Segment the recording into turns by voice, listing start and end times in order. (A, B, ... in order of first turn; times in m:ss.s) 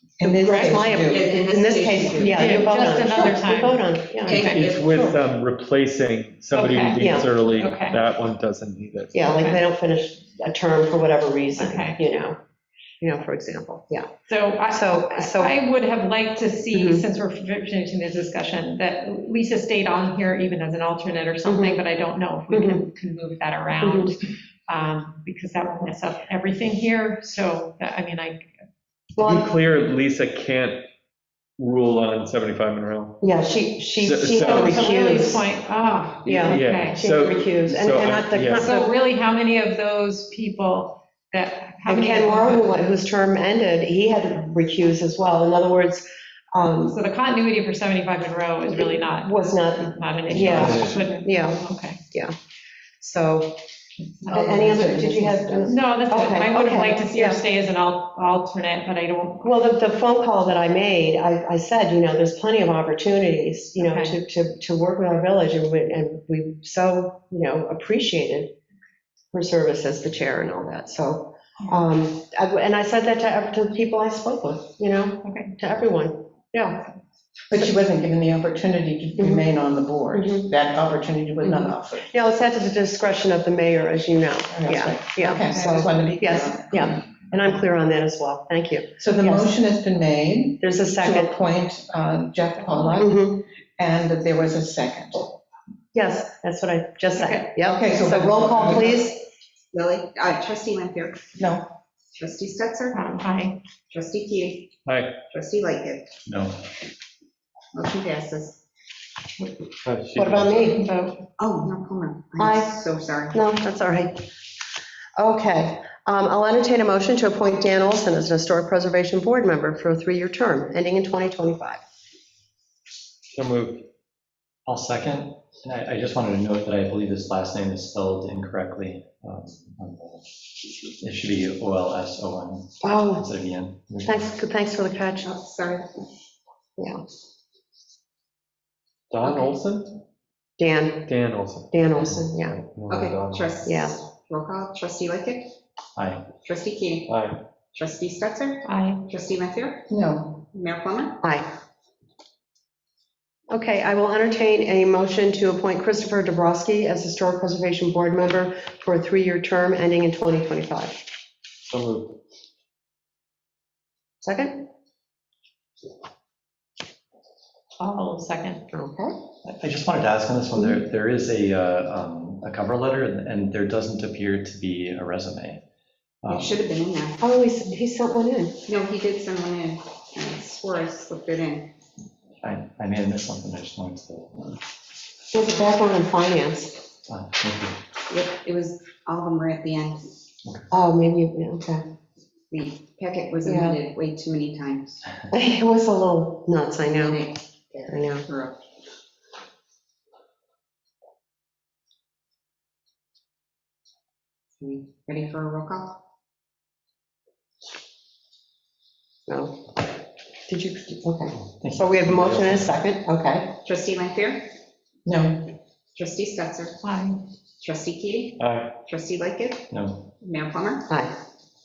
0:00.2-0:03.4 A
0:00.2-0:04.4 B
0:00.4-0:00.8 C
0:01.1-0:02.5 D
0:02.3-0:04.6 C
0:04.3-0:05.2 D
0:04.3-0:09.2 E
0:06.5-0:08.0 C
0:07.0-0:07.3 B
0:09.1-0:12.4 B
0:09.3-0:09.6 C
0:11.6-0:12.0 C
0:13.0-0:14.1 B
0:14.3-0:28.5 C
0:14.7-0:15.6 B
0:16.7-0:17.0 B
0:21.5-0:21.8 B
0:22.5-0:22.9 B
0:23.8-0:24.2 B
0:29.2-0:29.5 B
0:29.2-0:30.9 E
0:31.6-0:33.2 E
0:33.2-0:35.4 B
0:34.0-0:35.0 E
0:34.4-0:37.0 C
0:36.2-0:38.9 B
0:36.4-0:38.7 E
0:38.6-0:42.8 C
0:41.9-0:47.0 B
0:46.8-0:52.0 C
0:48.7-0:52.3 B
0:50.4-0:51.0 E
0:53.0-0:53.6 B
0:54.2-0:54.7 C
0:54.3-0:55.8 A
0:54.3-0:57.4 B
0:55.7-0:59.6 C
0:59.4-1:08.5 B
1:03.8-1:04.2 C
1:09.3-1:16.9 B
1:15.2-1:15.5 C
1:17.5-1:22.1 A
1:19.2-1:19.5 B
1:20.1-1:20.5 B
1:21.4-1:29.5 B
1:24.5-1:27.1 A
1:29.0-1:35.3 A
1:30.6-1:31.4 B
1:32.6-1:33.0 C
1:33.0-1:33.4 B
1:35.9-1:39.2 B
1:37.2-1:37.5 C
1:37.6-1:39.0 A
1:39.7-1:41.3 D
1:41.4-1:41.7 A
1:42.1-1:43.0 D
1:42.9-1:43.6 C
1:43.9-1:44.8 D
1:44.8-1:45.2 E
1:45.3-1:46.1 D
1:46.3-1:46.6 F
1:47.7-1:48.6 D
1:49.8-1:50.7 E
1:50.2-1:50.8 B
1:50.7-1:51.2 C
1:51.4-1:53.4 D
1:52.4-1:52.8 B
1:53.3-1:54.3 B
1:55.2-2:01.8 B
2:03.3-2:03.9 E
2:04.7-2:10.3 F
2:11.0-2:14.3 F
2:12.8-2:13.2 B
2:14.1-2:15.3 B
2:15.2-2:15.9 D
2:19.1-2:20.0 E
2:20.6-2:21.1 B
2:21.1-2:21.7 E
2:21.7-2:22.6 B
2:22.3-2:23.6 E
2:22.9-2:25.5 D
2:23.6-2:24.0 B
2:26.0-2:26.3 F
2:26.4-2:27.1 D
2:27.1-2:27.4 E
2:27.7-2:29.9 D
2:28.6-2:29.0 C
2:29.9-2:30.4 A
2:30.4-2:31.2 D
2:33.5-2:41.0 B
2:41.7-2:42.2 E
2:44.2-2:44.6 B
2:47.8-2:48.6 C
2:48.7-2:49.2 B
2:49.4-2:55.6 F
2:56.2-2:56.6 F
2:56.3-2:57.2 D
2:57.2-2:58.6 B
2:58.7-3:01.7 D
3:02.4-3:04.6 F
3:05.3-3:06.8 B
3:07.1-3:07.8 F
3:08.1-3:10.0 D
3:10.7-3:11.8 B
3:12.5-3:15.0 D
3:13.4-3:13.8 B
3:15.3-3:17.2 B
3:16.9-3:18.6 D
3:17.9-3:18.2 B
3:24.6-3:26.0 D
3:29.3-3:29.6 B
3:30.5-3:33.6 B
3:31.6-3:32.7 F
3:33.6-3:34.5 D
3:35.0-3:35.5 A
3:36.0-3:36.8 D
3:36.8-3:37.2 C
3:37.6-3:39.7 D
3:38.4-3:38.7 E
3:39.7-3:40.1 F
3:40.2-3:40.9 D